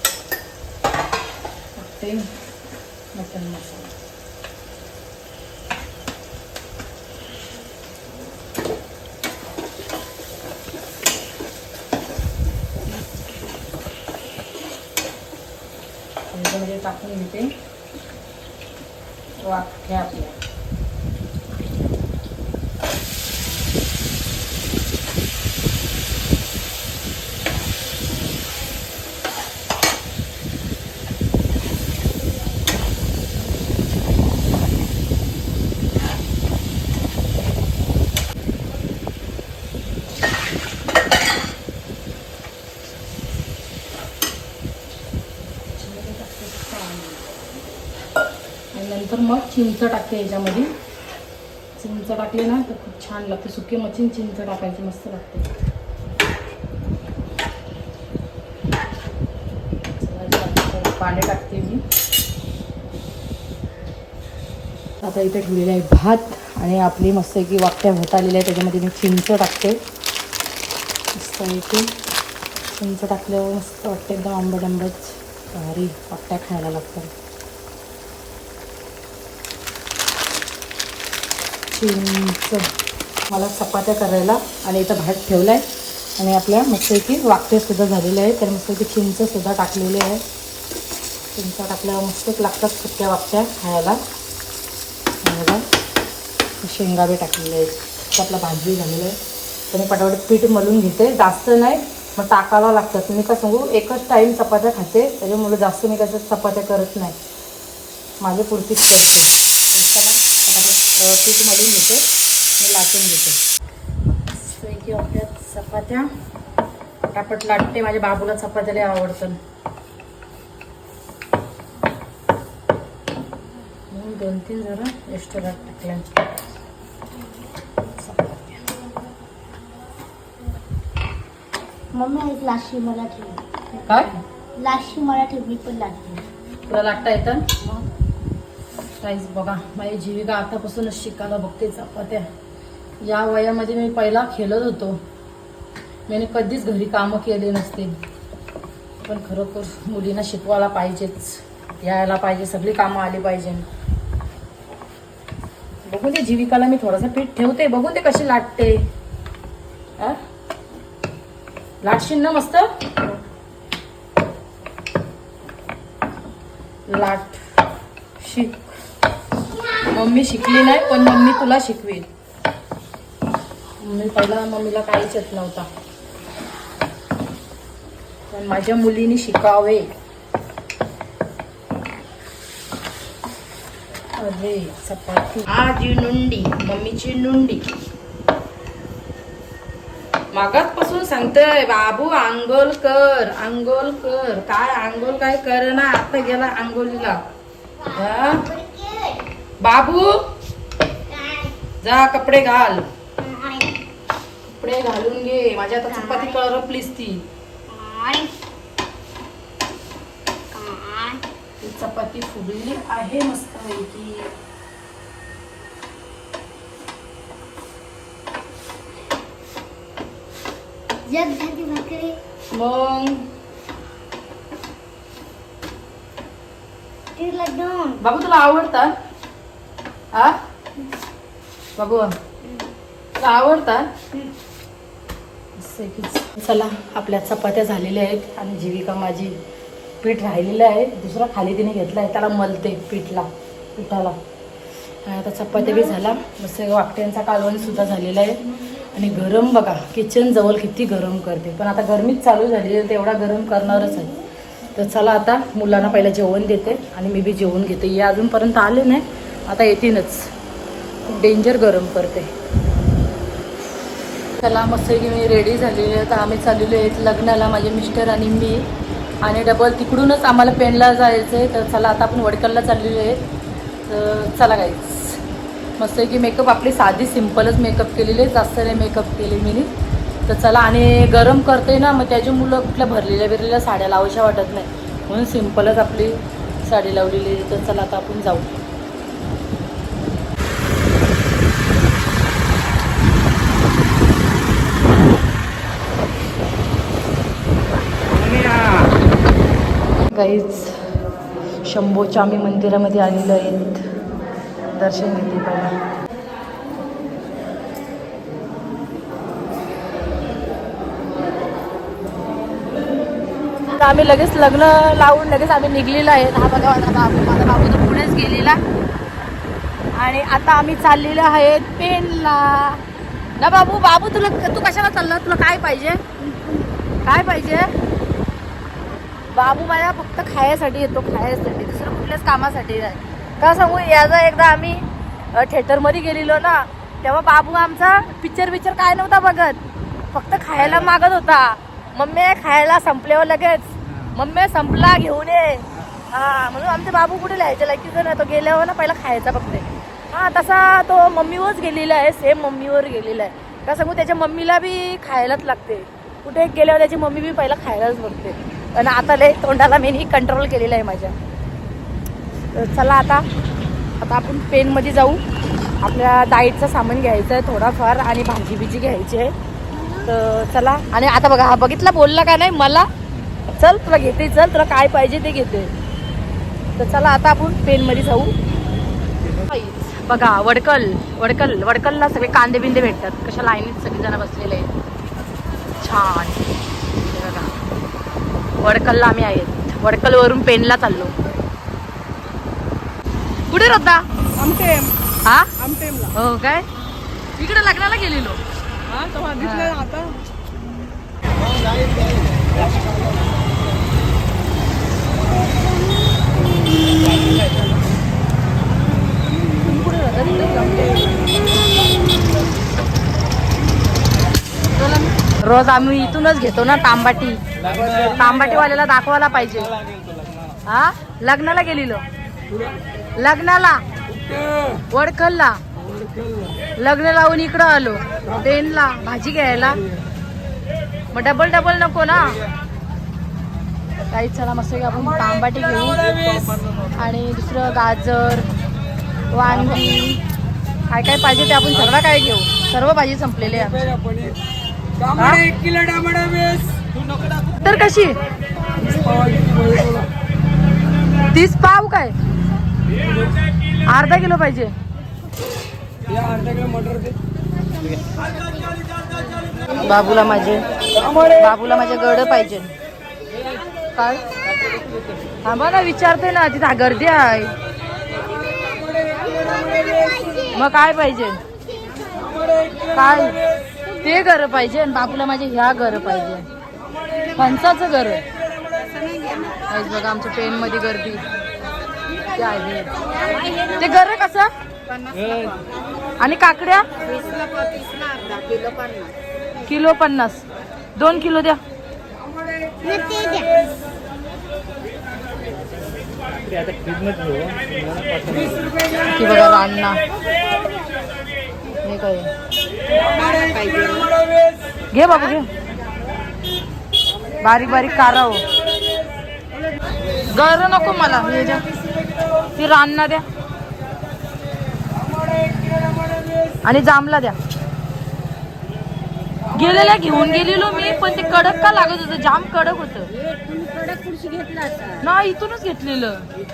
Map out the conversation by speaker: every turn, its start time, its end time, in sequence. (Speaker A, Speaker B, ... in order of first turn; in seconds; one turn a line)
Speaker A: 1.8-2.3
Speaker A: 3.1-4.0
Speaker A: 16.3-17.6
Speaker A: 19.4-20.4
Speaker A: 45.8-47.3
Speaker A: 48.7-50.7
Speaker A: 51.8-55.5
Speaker A: 60.0-61.8
Speaker A: 65.0-69.8
Speaker A: 71.1-71.9
Speaker A: 72.7-77.1
Speaker A: 81.7-82.7
Speaker A: 83.3-85.7
Speaker A: 86.2-90.2
Speaker A: 91.3-94.0
Speaker A: 95.2-95.7
Speaker A: 96.6-99.2
Speaker A: 99.7-107.2
Speaker A: 108.2-112.1
Speaker A: 112.6-113.4
Speaker A: 114.3-116.1
Speaker A: 117.1-119.4
Speaker A: 123.9-126.2
Speaker A: 128.0-128.6
Speaker B: 131.9-133.4
Speaker A: 133.9-134.2
Speaker B: 133.9-136.3
Speaker A: 136.7-137.5
Speaker A: 139.0-142.3
Speaker A: 143.0-145.0
Speaker A: 146.1-148.0
Speaker A: 149.0-153.7
Speaker A: 155.8-158.9
Speaker A: 161.8-162.9
Speaker A: 166.9-167.5
Speaker A: 168.2-168.7
Speaker A: 169.9-172.1
Speaker A: 173.8-175.7
Speaker A: 178.3-179.9
Speaker A: 184.2-187.7
Speaker A: 190.3-197.2
Speaker B: 197.8-199.2
Speaker A: 197.9-198.5
Speaker A: 199.6-200.2
Speaker B: 201.1-201.6
Speaker A: 201.8-202.9
Speaker B: 203.2-203.8
Speaker A: 204.5-207.3
Speaker B: 205.9-206.4
Speaker B: 207.7-208.3
Speaker B: 210.5-211.2
Speaker A: 211.6-214.3
Speaker B: 221.1-222.2
Speaker A: 222.5-223.3
Speaker B: 227.2-228.0
Speaker A: 228.0-228.9
Speaker A: 230.1-230.4
Speaker A: 231.8-232.2
Speaker B: 232.4-232.7
Speaker A: 233.2-233.9
Speaker A: 235.6-239.4
Speaker A: 240.0-244.2
Speaker A: 245.1-254.2
Speaker A: 254.8-260.3
Speaker A: 261.1-262.3
Speaker A: 264.4-268.7
Speaker A: 269.2-273.2
Speaker A: 273.9-275.2
Speaker A: 275.8-279.7
Speaker A: 280.3-288.6
Speaker A: 300.1-300.8
Speaker A: 301.6-303.9
Speaker A: 304.7-305.8
Speaker A: 313.6-318.6
Speaker A: 319.9-322.8
Speaker A: 323.4-326.0
Speaker B: 326.2-326.8
Speaker A: 327.1-327.7
Speaker A: 329.3-339.6
Speaker A: 340.1-361.1
Speaker A: 362.5-363.3
Speaker A: 364.0-365.2
Speaker A: 365.8-369.3
Speaker B: 369.7-370.1
Speaker A: 370.1-372.9
Speaker A: 373.5-375.7
Speaker A: 376.8-378.4
Speaker A: 379.5-384.7
Speaker A: 385.8-387.6
Speaker A: 388.6-391.1
Speaker A: 393.5-394.1
Speaker C: 394.4-395.0
Speaker C: 395.6-396.1
Speaker A: 396.1-396.7
Speaker A: 397.4-398.4
Speaker C: 398.9-400.2
Speaker A: 399.4-399.8
Speaker C: 402.5-403.1
Speaker C: 407.1-407.8
Speaker A: 409.6-411.1
Speaker A: 414.8-419.7
Speaker C: 417.6-418.6
Speaker C: 419.6-420.6
Speaker A: 420.7-422.0
Speaker C: 422.5-422.7
Speaker A: 423.2-423.9
Speaker C: 424.1-424.8
Speaker A: 424.9-425.6
Speaker C: 425.8-426.6
Speaker A: 426.8-429.8
Speaker A: 431.1-432.4
Speaker A: 434.1-436.0
Speaker C: 435.9-437.0
Speaker A: 436.9-438.5
Speaker A: 439.3-440.2
Speaker A: 440.9-443.9
Speaker C: 443.4-444.4
Speaker C: 445.0-447.6
Speaker A: 445.2-445.4
Speaker A: 447.6-448.2
Speaker C: 448.8-450.1
Speaker A: 451.3-452.1
Speaker C: 453.1-453.3
Speaker A: 453.9-454.7
Speaker C: 456.1-457.2
Speaker B: 457.8-459.8
Speaker A: 459.8-460.7
Speaker C: 460.9-461.4
Speaker A: 461.3-462.7
Speaker A: 463.9-464.2
Speaker C: 464.5-465.2
Speaker A: 465.4-467.6
Speaker B: 468.1-470.7
Speaker A: 470.5-471.4
Speaker B: 471.7-472.9
Speaker A: 472.9-473.4
Speaker A: 474.0-476.5
Speaker A: 477.4-478.2
Speaker B: 478.8-479.7
Speaker A: 479.7-481.2
Speaker A: 482.3-482.9
Speaker B: 483.2-483.8
Speaker A: 483.8-484.5
Speaker B: 484.9-485.5
Speaker C: 485.2-485.6
Speaker A: 486.2-486.9
Speaker B: 487.0-489.1
Speaker A: 489.7-490.4
Speaker A: 491.0-491.6
Speaker B: 492.8-493.7
Speaker C: 496.2-498.9
Speaker A: 499.1-500.0
Speaker B: 500.3-500.7
Speaker A: 501.8-502.3
Speaker B: 502.9-504.2
Speaker A: 504.9-505.5
Speaker A: 507.4-508.4
Speaker A: 510.3-511.7
Speaker A: 512.6-513.2
Speaker C: 514.9-516.2
Speaker A: 516.6-517.4
Speaker A: 519.5-523.1
Speaker B: 523.1-525.1
Speaker A: 525.0-526.3